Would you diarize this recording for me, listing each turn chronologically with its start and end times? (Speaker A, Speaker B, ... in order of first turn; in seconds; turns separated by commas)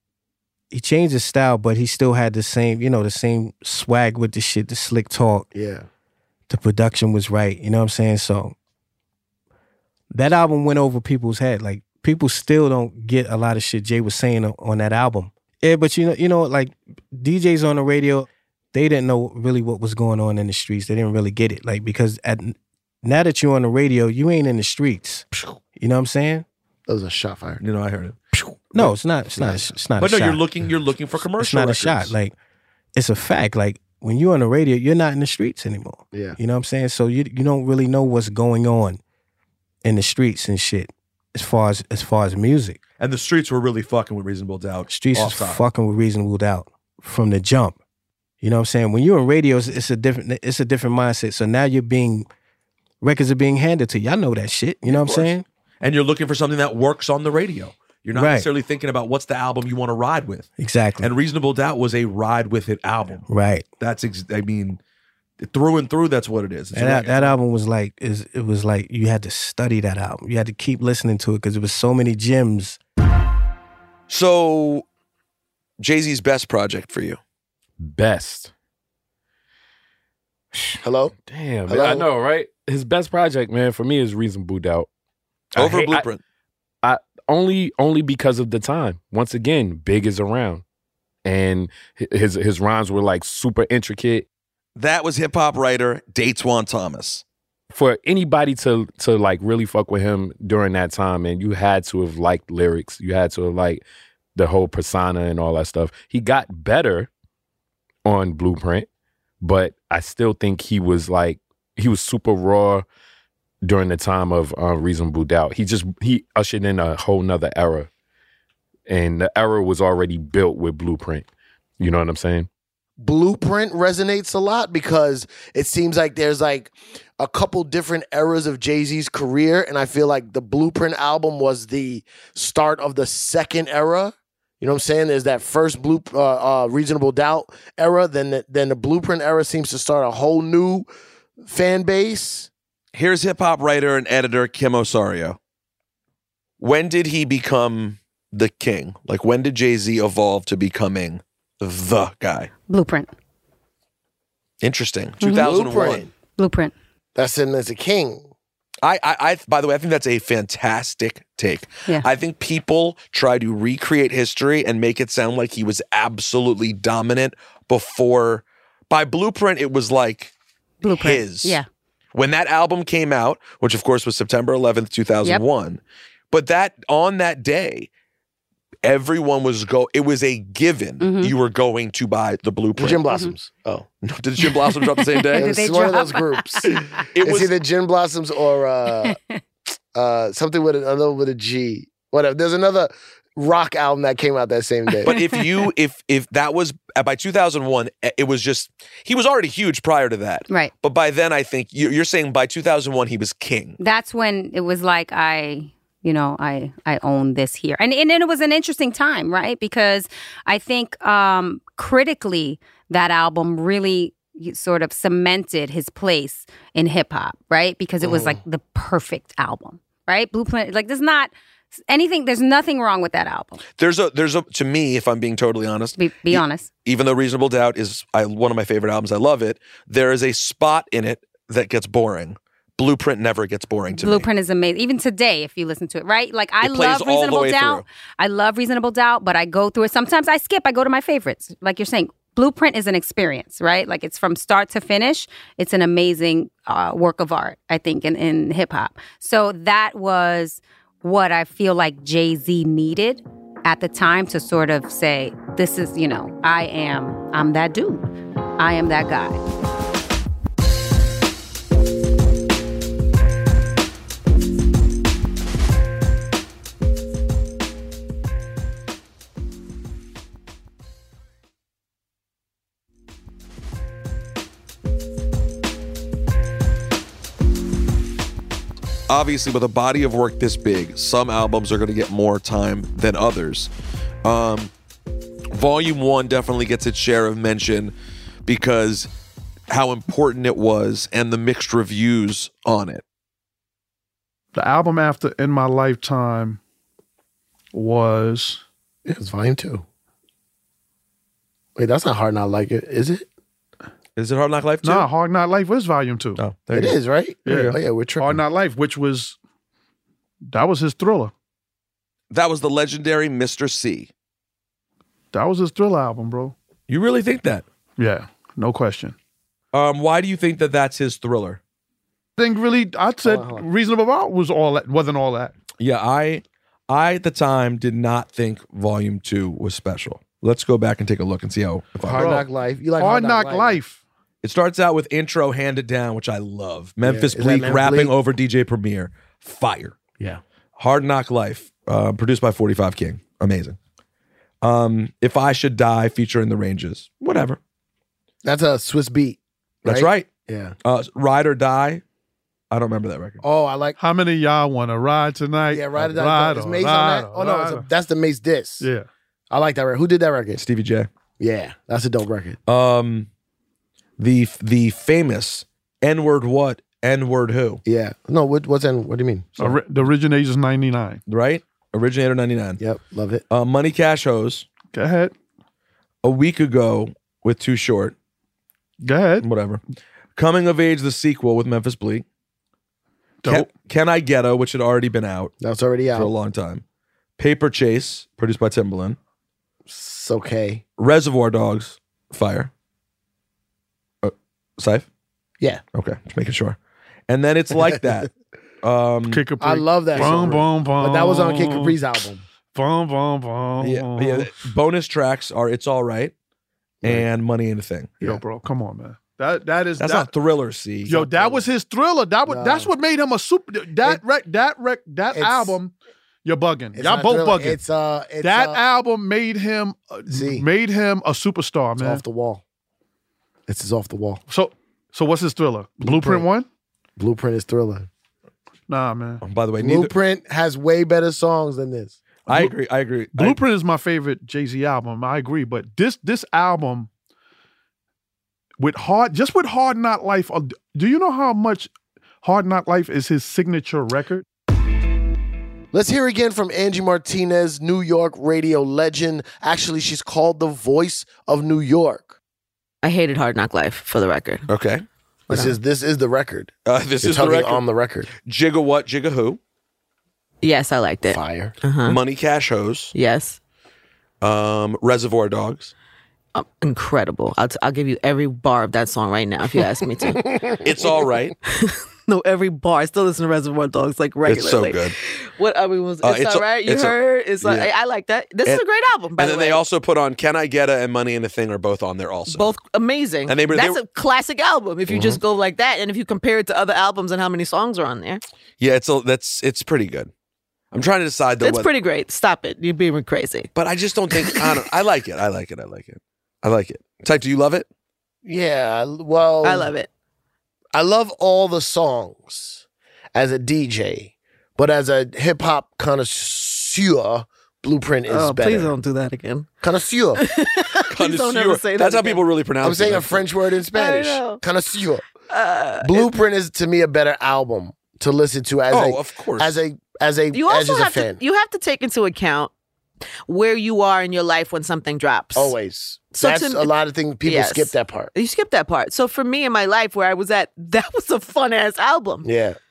Speaker A: 0.7-5.5, Speaker B: 5.5-5.9, Speaker A: 6.5-8.6, Speaker A: 10.1-26.4, Speaker B: 26.9-27.6, Speaker C: 27.6-28.2, Speaker A: 28.7-30.4, Speaker C: 30.0-32.1, Speaker A: 31.4-32.4, Speaker A: 32.9-39.0, Speaker A: 39.8-42.8, Speaker C: 43.0-45.7, Speaker A: 44.9-47.8, Speaker A: 48.4-52.3, Speaker A: 53.0-55.4, Speaker C: 54.9-60.5, Speaker A: 58.1-58.5, Speaker A: 60.6-61.1, Speaker C: 61.0-63.2, Speaker A: 63.3-63.7, Speaker C: 63.8-64.8, Speaker C: 65.4-67.4, Speaker A: 66.7-72.8, Speaker C: 74.1-74.8, Speaker C: 75.8-77.2, Speaker D: 77.8-78.5, Speaker D: 80.5-84.9, Speaker B: 80.8-81.1, Speaker B: 81.7-82.1, Speaker C: 85.6-86.2, Speaker D: 85.6-86.1, Speaker D: 86.8-90.6, Speaker D: 91.2-94.2, Speaker C: 94.8-97.2, Speaker D: 97.7-103.8, Speaker D: 104.3-107.1, Speaker D: 108.0-108.9, Speaker D: 109.4-112.8, Speaker D: 113.6-117.9, Speaker D: 118.9-121.2, Speaker D: 121.8-122.5, Speaker B: 123.0-140.9, Speaker B: 141.4-142.5, Speaker C: 142.9-145.4, Speaker C: 146.6-152.5, Speaker E: 152.7-153.1, Speaker C: 154.6-156.1, Speaker E: 155.2-155.5, Speaker B: 155.3-156.1, Speaker E: 156.4-156.7, Speaker B: 157.1-158.3, Speaker C: 158.8-170.3, Speaker E: 170.8-171.7, Speaker C: 170.9-171.6, Speaker C: 172.1-177.9, Speaker C: 178.8-183.1, Speaker E: 181.0-181.3, Speaker B: 182.8-183.9, Speaker C: 184.0-185.5, Speaker E: 185.1-186.9, Speaker B: 185.4-189.2, Speaker C: 187.1-187.5, Speaker E: 189.1-189.4, Speaker B: 189.9-195.1, Speaker C: 195.1-203.8, Speaker E: 203.8-221.3, Speaker B: 218.0-218.4, Speaker E: 221.9-223.6, Speaker C: 223.8-234.3, Speaker E: 226.0-226.7, Speaker E: 234.0-258.0, Speaker C: 236.6-237.8, Speaker E: 258.6-259.4, Speaker C: 279.1-283.7, Speaker C: 284.2-284.7, Speaker C: 285.5-287.9, Speaker C: 288.5-289.1, Speaker C: 289.7-293.0, Speaker F: 294.5-296.6, Speaker F: 297.7-298.6, Speaker B: 299.1-299.8, Speaker B: 301.8-303.2, Speaker C: 304.1-305.1, Speaker F: 304.8-306.4, Speaker C: 306.4-307.8, Speaker B: 306.7-308.4, Speaker F: 307.5-309.4, Speaker F: 310.5-311.3, Speaker C: 312.3-314.1, Speaker F: 315.3-316.5, Speaker C: 316.9-317.6, Speaker F: 318.0-319.1, Speaker C: 319.7-321.6, Speaker F: 322.4-325.5, Speaker B: 323.2-323.6, Speaker C: 325.8-332.4, Speaker B: 332.0-333.8, Speaker F: 332.1-334.0, Speaker C: 334.4-339.9, Speaker B: 337.0-338.1, Speaker C: 340.8-343.8, Speaker C: 344.6-347.6, Speaker B: 348.4-350.8, Speaker C: 349.9-350.3, Speaker C: 350.8-352.0, Speaker C: 352.7-353.4, Speaker B: 353.4-354.0, Speaker F: 354.0-357.9, Speaker B: 355.7-358.9, Speaker F: 358.8-359.1, Speaker B: 359.5-360.6, Speaker C: 360.6-361.1, Speaker B: 361.4-362.6, Speaker C: 362.7-363.3, Speaker C: 364.2-367.8, Speaker B: 367.9-369.6, Speaker F: 369.6-371.2, Speaker C: 371.3-372.8, Speaker B: 372.8-373.4, Speaker C: 373.5-374.7, Speaker F: 374.9-375.3, Speaker C: 376.2-378.1, Speaker F: 379.0-379.5, Speaker C: 379.4-379.8, Speaker C: 380.4-382.2, Speaker F: 383.4-383.7, Speaker C: 383.5-385.5, Speaker B: 385.6-386.3, Speaker C: 386.1-386.8, Speaker C: 387.4-389.2, Speaker B: 389.9-390.8, Speaker C: 391.0-392.7, Speaker C: 394.2-395.1, Speaker C: 395.9-396.8, Speaker C: 397.3-398.3, Speaker C: 398.8-399.4, Speaker F: 399.3-402.0, Speaker B: 399.6-402.4, Speaker C: 400.2-400.5, Speaker F: 402.7-404.6, Speaker C: 403.8-406.3, Speaker C: 407.0-408.1, Speaker F: 408.2-410.3, Speaker C: 410.0-411.2, Speaker F: 411.1-417.8, Speaker B: 411.1-411.6, Speaker B: 412.5-412.9, Speaker B: 415.3-415.8, Speaker B: 416.9-418.8, Speaker F: 418.4-422.2, Speaker B: 420.3-420.6, Speaker B: 422.0-422.6, Speaker B: 423.7-424.4, Speaker F: 424.5-426.7, Speaker B: 426.0-426.5, Speaker B: 427.2-428.1, Speaker F: 428.9-429.4, Speaker C: 429.4-430.1, Speaker B: 429.8-432.2, Speaker C: 432.5-433.6, Speaker F: 432.5-432.7, Speaker F: 433.3-437.1, Speaker F: 438.8-441.9, Speaker F: 442.4-444.4, Speaker B: 445.9-452.4, Speaker G: 453.0-454.6, Speaker C: 454.7-455.0, Speaker B: 455.5-458.3, Speaker G: 455.5-455.8, Speaker C: 456.9-457.8, Speaker C: 458.4-459.6, Speaker G: 460.6-462.2, Speaker B: 461.3-461.8, Speaker C: 462.0-463.1, Speaker G: 463.1-463.6, Speaker C: 464.4-465.9, Speaker G: 466.5-470.4, Speaker C: 470.8-471.5, Speaker G: 471.7-479.8, Speaker C: 474.5-475.1, Speaker C: 476.2-477.9, Speaker C: 479.4-482.7, Speaker G: 482.5-488.4, Speaker C: 483.5-484.0, Speaker B: 485.1-485.4, Speaker C: 488.8-490.3, Speaker C: 490.9-491.9, Speaker G: 491.6-493.7, Speaker C: 493.8-497.9, Speaker G: 494.3-494.6, Speaker B: 498.4-499.9, Speaker G: 499.6-500.1, Speaker B: 500.9-502.8, Speaker B: 503.3-508.9, Speaker G: 508.3-509.7, Speaker B: 509.8-510.4, Speaker G: 510.4-512.4, Speaker C: 511.1-513.5, Speaker B: 512.8-515.2, Speaker G: 513.9-514.6, Speaker G: 515.5-516.3, Speaker B: 516.0-521.4, Speaker C: 518.9-519.8, Speaker G: 520.5-522.7, Speaker G: 523.5-525.8, Speaker B: 525.5-528.3, Speaker G: 526.3-526.9, Speaker G: 527.4-532.5, Speaker B: 532.4-532.8